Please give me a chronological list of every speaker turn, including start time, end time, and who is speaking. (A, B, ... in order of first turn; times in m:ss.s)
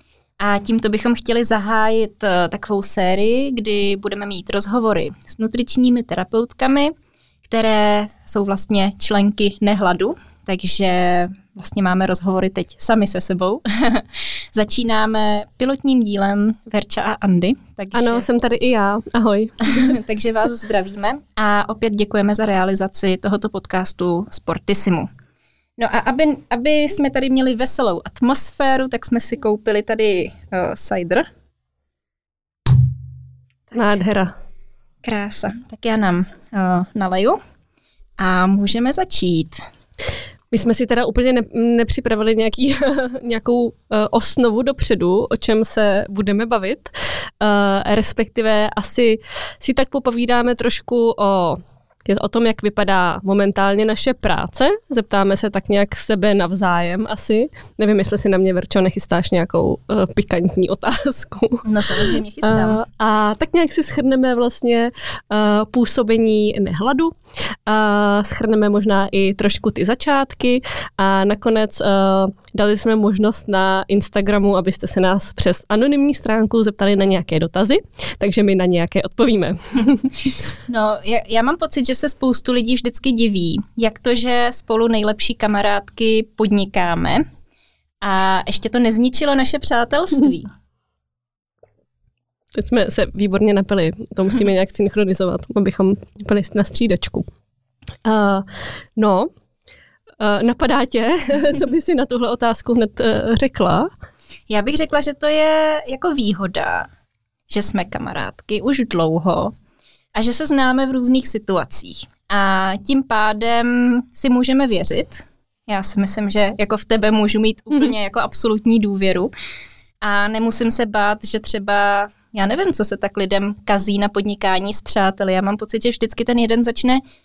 0:00.4-0:06.9 A
0:07.4-0:18.2 A
0:17.9-0:20.0 B
0:19.6-0:25.1 A
0:25.8-0:31.3 A
0:33.7-0:34.3 B
0:35.0-0:37.4 A
0:38.2-0:39.6 A
0:40.5-1:07.1 B
1:01.6-1:02.8 A
1:07.6-1:20.1 B
1:20.7-1:27.2 A
1:28.0-1:30.5 A
1:32.5-1:37.3 B
1:38.0-1:39.3 B
1:40.2-1:43.9 B
1:44.5-1:46.9 A
1:47.5-1:49.5 A
1:50.1-1:59.3 A
2:00.0-2:07.0 A